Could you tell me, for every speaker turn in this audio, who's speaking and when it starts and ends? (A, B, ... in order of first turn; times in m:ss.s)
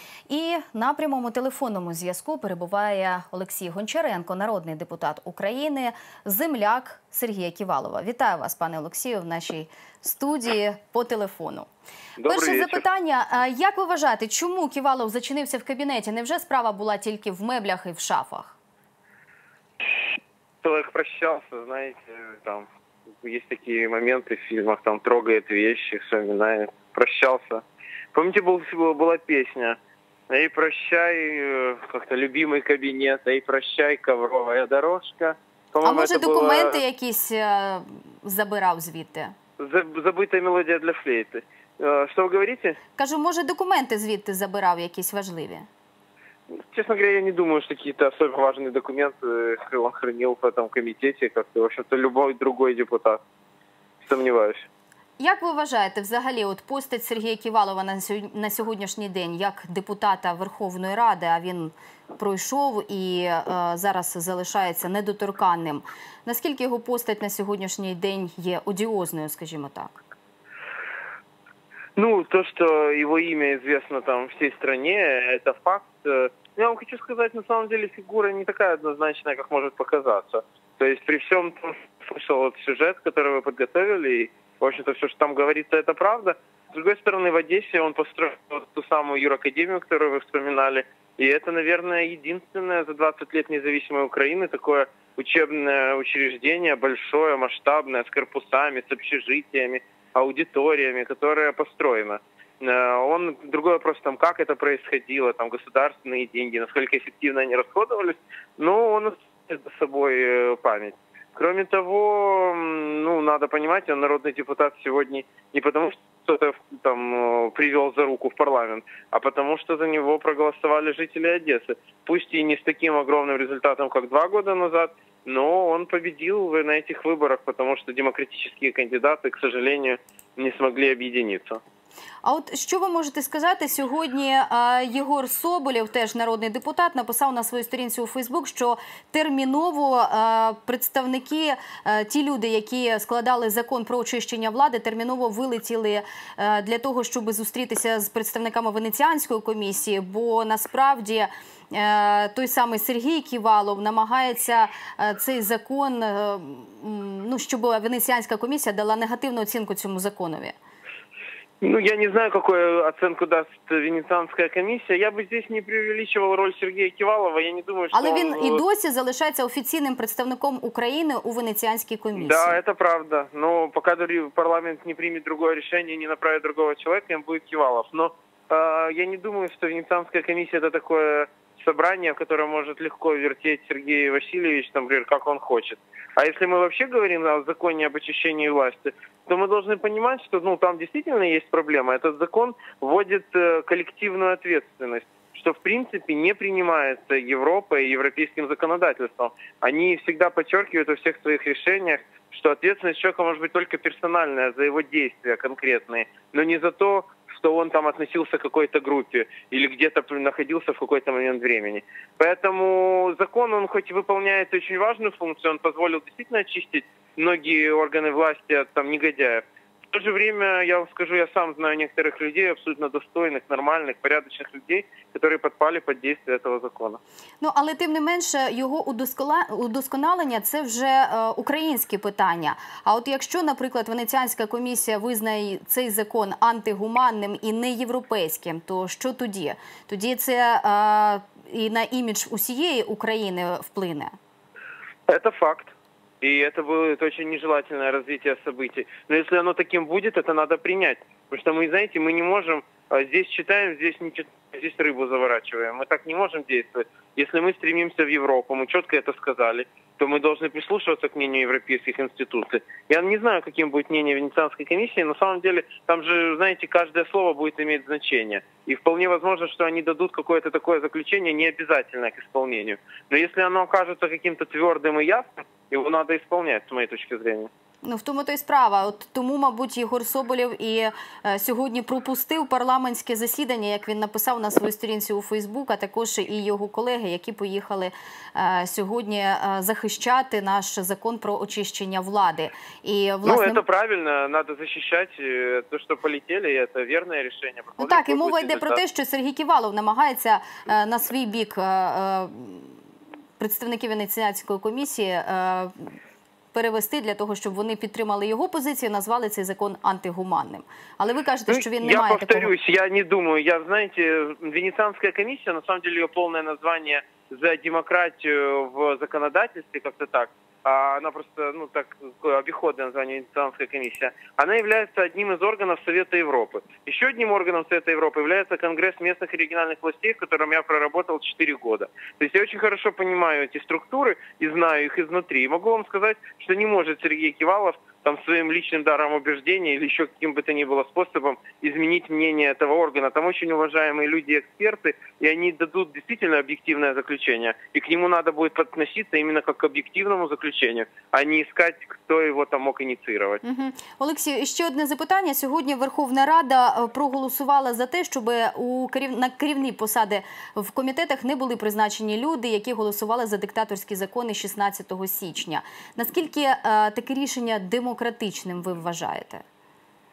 0:00.3-0:11.7 A
0:12.2-0:12.8 B
0:12.2-0:18.6 A
0:20.6-0:22.7 B
0:23.2-0:27.6 B
0:28.1-0:29.8 B
0:30.3-0:36.8 B
0:35.8-0:39.3 A
0:39.6-0:42.8 B
0:43.0-0:45.7 A
0:46.5-0:53.2 B
0:54.0-0:54.6 B
0:55.2-1:10.0 A
1:12.0-2:11.6 B
2:12.2-2:40.6 A
2:41.6-2:48.6 B
2:47.9-2:52.6 A
2:52.1-3:47.0 B
3:47.4-4:04.1 A
4:05.1-4:37.5 B
4:37.8-4:53.6 A
4:53.2-4:58.8 B
4:57.8-5:02.8 A
5:03.4-5:06.0 A
5:06.5-5:12.5 A
5:11.5-5:53.4 B
5:53.4-6:09.4 A